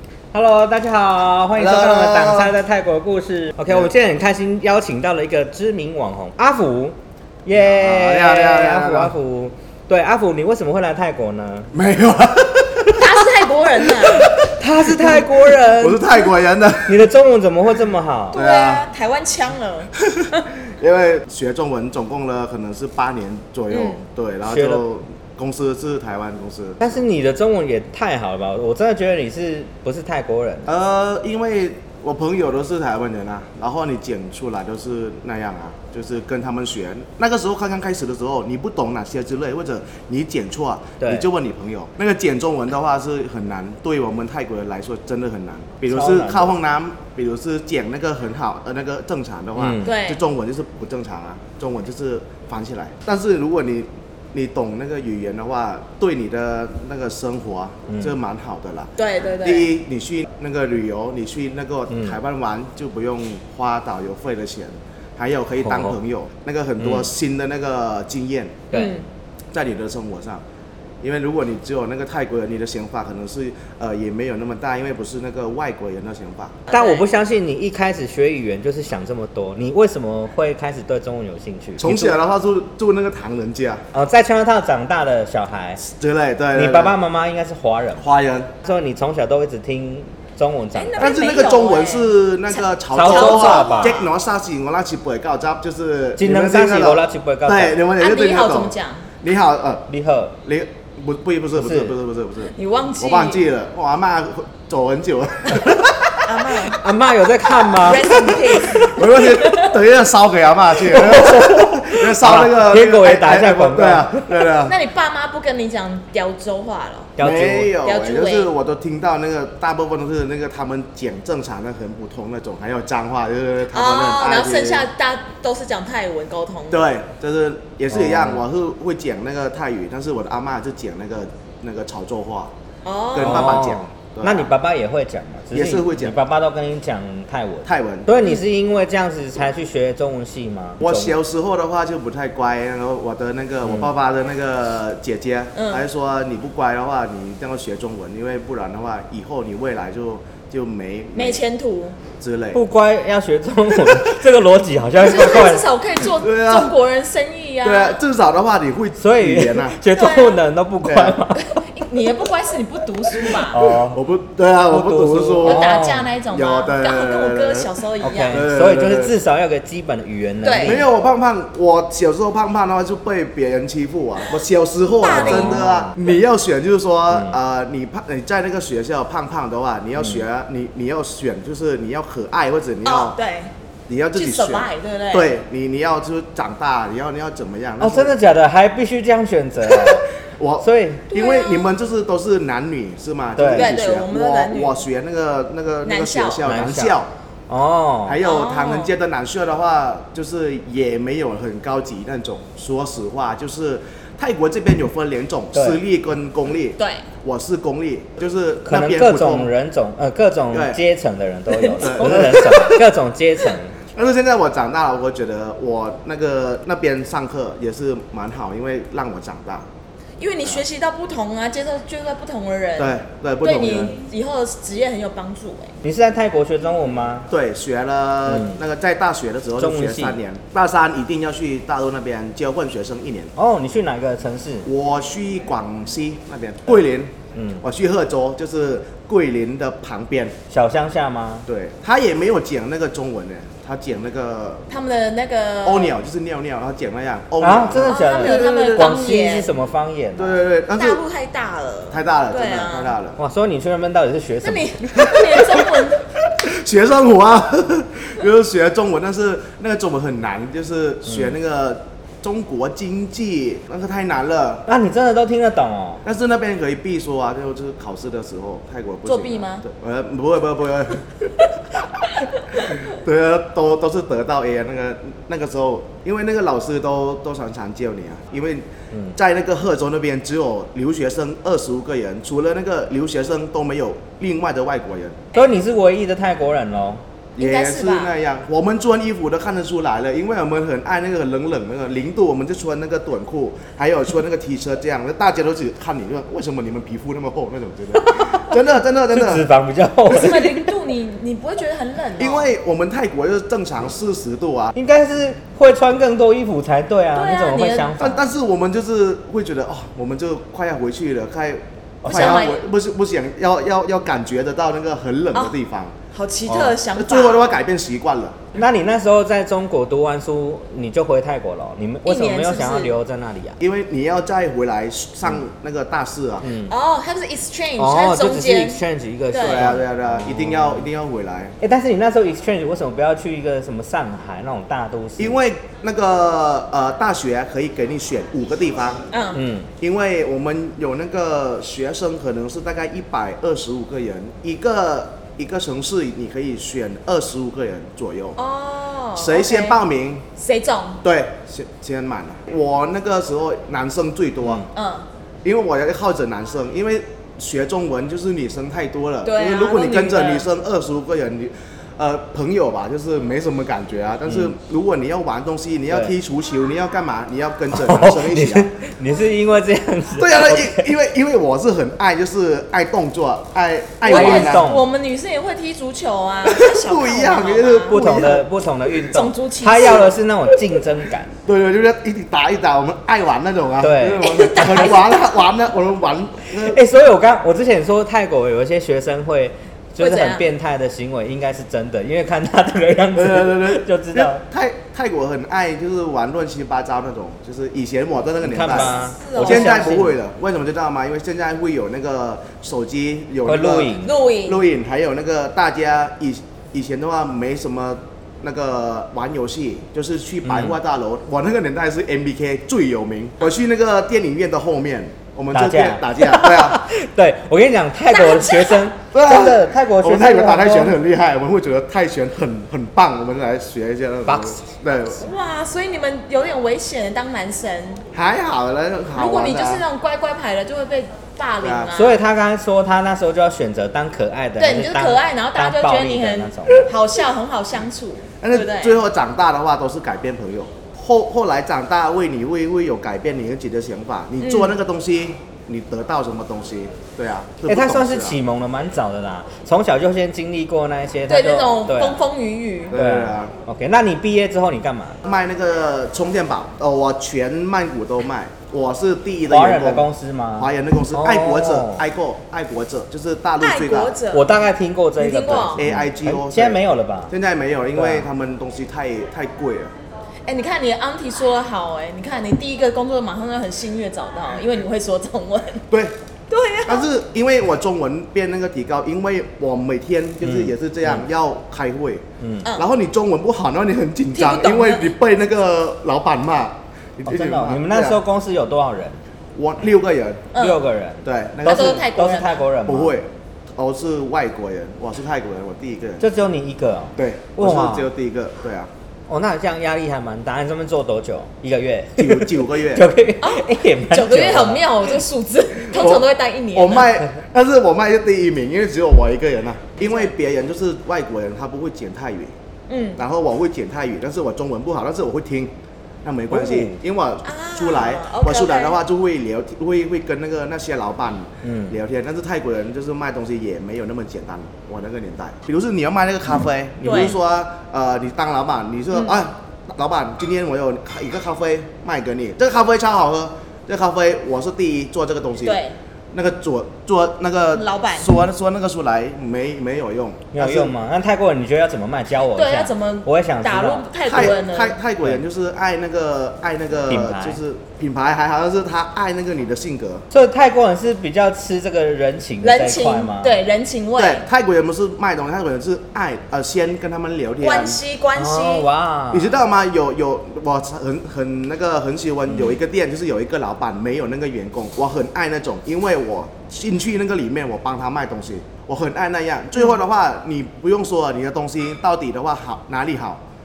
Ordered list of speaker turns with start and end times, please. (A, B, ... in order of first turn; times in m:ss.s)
0:00.3-0:11.7 A
0:01.6-0:02.5 B
0:07.5-0:09.1 B
0:11.7-0:17.0 B
0:12.9-0:14.3 C
0:14.6-0:16.1 A
0:16.8-0:18.4 A
0:18.3-0:18.9 B
0:18.3-0:20.5 C
0:20.0-0:26.8 B
0:23.7-0:24.0 C
0:24.5-0:24.8 A
0:26.8-0:30.7 A
0:30.6-1:08.7 B
0:41.0-0:41.3 A
0:45.9-0:46.5 A
0:49.6-0:49.9 A
0:49.8-0:50.2 C
0:57.9-0:58.2 A
0:59.0-0:59.7 C
1:01.9-1:02.2 A
1:05.6-1:06.0 A
1:06.8-1:07.1 A
1:08.7-1:09.0 A
1:08.7-1:09.1 C
1:09.5-1:10.4 B
1:11.0-1:16.6 B
1:16.7-1:17.0 C
1:16.7-1:22.2 A
1:21.8-1:23.8 B
1:23.9-1:25.8 A
1:25.8-1:27.0 B
1:26.5-1:28.1 A
1:28.0-1:28.5 B
1:28.6-1:31.1 A
1:30.7-1:34.1 C
1:31.0-1:39.9 B
1:32.9-1:34.0 A
1:36.2-1:37.8 A
1:38.0-1:39.1 C
1:39.9-1:40.4 A
1:40.4-1:46.7 B
1:41.6-1:42.0 A
1:42.6-1:43.4 C
1:46.2-1:46.8 C
1:46.7-1:48.4 A
1:47.7-1:49.8 C
1:48.1-1:54.8 B
1:50.8-1:54.3 A
1:54.6-1:57.1 C
1:57.2-1:57.8 A
1:57.2-2:04.9 B
1:57.8-1:58.5 C
2:03.7-2:06.9 C
2:06.7-2:12.5 B
2:07.9-2:08.4 A
2:12.8-2:13.6 C
2:13.1-2:14.5 B
2:13.2-2:21.1 A
2:15.5-2:16.2 B
2:17.6-2:18.1 B
2:20.8-2:31.4 B
2:23.6-2:23.9 A
2:25.5-2:25.8 C
2:31.1-2:32.0 C
2:32.2-2:32.6 B
2:32.5-2:35.7 A
2:33.8-2:34.1 B
2:35.0-2:38.0 C
2:36.2-2:36.7 B
2:37.6-2:39.8 B
2:39.0-2:41.6 A
2:39.9-2:40.4 C
2:40.8-2:41.2 B
2:41.4-2:43.6 C
2:43.4-2:44.0 A
2:43.5-2:47.7 B
2:44.7-2:46.1 A
2:45.4-2:48.5 C
2:48.0-2:50.9 A
2:48.3-2:49.2 B
2:50.4-2:50.8 C
2:50.6-3:03.2 B
2:55.0-2:55.7 C
2:55.1-2:56.0 A
2:57.1-2:57.4 A
3:00.0-3:00.2 A
3:02.8-3:03.5 C
3:03.9-3:08.2 B
3:04.1-3:05.4 C
3:07.8-3:10.1 A
3:09.7-3:17.1 B
3:10.6-3:11.2 A
3:11.1-3:11.7 C
3:13.4-3:13.7 A
3:13.5-3:14.8 C
3:15.8-3:16.4 C
3:16.4-3:18.2 A
3:18.0-3:29.5 B
3:18.2-3:18.9 C
3:25.5-3:25.8 A
3:26.8-3:27.0 C
3:28.6-3:33.7 A
3:30.5-3:30.8 B
3:31.5-3:31.8 C
3:31.8-3:32.8 B
3:33.9-3:39.7 B
3:40.2-3:45.7 C
3:42.8-3:44.0 B
3:45.8-3:47.3 A
3:47.3-3:53.3 B
3:48.2-3:48.6 A
3:49.6-3:50.2 A
3:53.4-3:54.7 A
3:54.6-4:00.4 B
3:57.3-3:57.6 A
4:00.5-4:01.5 A
4:01.4-4:04.7 B
4:04.7-4:05.9 C
4:05.6-4:08.9 B
4:07.4-4:10.4 A
4:07.8-4:09.5 C
4:10.2-4:11.0 B
4:10.8-4:12.9 C
4:11.9-4:13.2 B
4:13.2-4:14.8 A
4:14.4-4:16.0 C
4:14.9-4:15.7 B
4:16.4-4:24.6 B
4:21.0-4:21.3 A
4:24.7-4:26.0 A
4:26.0-4:31.4 B
4:29.0-4:29.6 C
4:32.6-4:45.2 B
4:38.9-4:39.2 A
4:45.3-4:47.0 A
4:47.4-4:59.4 B
4:47.4-4:48.1 C
4:57.9-4:58.6 A
4:59.1-5:00.7 A
5:00.1-5:02.5 C
5:02.2-5:04.7 B
5:04.7-5:08.2 A
5:07.1-5:07.9 C
5:08.0-5:16.0 B
5:12.0-5:12.5 A
5:12.0-5:12.6 C
5:16.1-5:17.6 C
5:17.0-5:18.4 B
5:18.5-5:23.6 A
5:22.0-5:23.0 C
5:23.6-5:26.5 B
5:26.4-5:26.7 A
5:26.7-5:29.7 C
5:27.8-5:30.9 A
5:29.4-5:31.6 B
5:31.6-5:35.4 A
5:35.2-5:39.0 B
5:39.1-5:39.4 C
5:39.3-5:39.7 A
5:39.8-5:48.4 B
5:48.4-5:49.8 C
5:49.1-5:50.2 B
5:50.4-5:51.0 C
5:51.0-5:54.6 B
5:54.4-5:54.7 A
5:54.7-5:55.1 C
5:55.4-6:08.7 B
5:59.2-6:00.4 C
6:04.3-6:04.5 A
6:05.9-6:06.1 A
6:07.7-6:10.9 A
6:10.2-6:14.7 B
6:14.0-6:18.0 C
6:14.1-6:14.8 A
6:16.4-6:18.5 B
6:17.9-6:21.3 A
6:19.1-6:20.0 C
6:21.4-6:26.8 B
6:23.8-6:24.3 A
6:24.2-6:25.2 C
6:26.5-6:34.4 A
6:30.0-6:30.4 C
6:33.1-6:56.8 B
6:38.4-6:40.2 A
6:38.6-6:39.9 C
6:43.4-6:44.1 A
6:44.0-6:44.6 C
6:50.4-6:50.8 A
6:55.5-7:01.0 A
6:58.1-6:58.9 C
6:59.1-7:05.2 B
7:04.2-7:04.6 A
7:05.2-7:08.0 C
7:08.1-7:09.8 B
7:09.1-7:12.2 C
7:11.6-7:11.9 B
7:11.9-7:16.9 A
7:14.6-7:19.0 C
7:18.4-7:28.4 B
7:24.4-7:24.7 C
7:27.6-7:32.2 A
7:31.3-7:33.0 C
7:32.9-7:33.5 B
7:32.9-7:35.2 A
7:35.2-7:44.2 B
7:39.5-7:42.0 A
7:43.6-7:44.5 C
7:44.3-7:47.3 A
7:45.2-7:45.8 C
7:45.7-7:49.9 B
7:47.9-7:48.3 A
7:50.5-7:55.8 C
7:55.9-7:56.2 B
7:56.5-7:57.1 C
7:56.8-8:08.2 B
8:00.4-8:01.2 A
8:02.4-8:02.7 A
8:04.3-8:05.1 C
8:07.2-8:09.2 A
8:09.5-8:10.5 B
8:10.5-8:10.8 C
8:10.5-8:13.2 A
8:11.2-8:12.3 B
8:11.6-8:12.6 C
8:12.8-8:16.2 B
8:16.2-8:18.1 A
8:17.2-8:18.9 B
8:19.3-8:24.9 A
8:22.2-8:23.1 B
8:23.4-8:27.2 C
8:25.9-8:32.5 B
8:30.0-8:30.3 C
8:32.9-8:33.2 C
8:33.2-8:35.7 B
8:36.2-9:00.9 B
8:36.5-8:37.0 A
8:37.4-8:39.0 C
8:41.6-8:42.0 A
8:47.0-8:47.4 C
8:49.1-8:49.4 C
8:55.6-8:56.0 C
8:57.7-8:58.3 C
9:00.5-9:04.4 A
9:02.5-9:05.0 C
9:04.2-9:10.2 B
9:07.1-9:07.6 A
9:10.3-9:13.5 A
9:12.6-9:14.4 C
9:14.2-9:18.0 B
9:17.6-9:18.9 C
9:18.3-9:19.5 A
9:19.3-9:33.4 B
9:22.5-9:22.8 A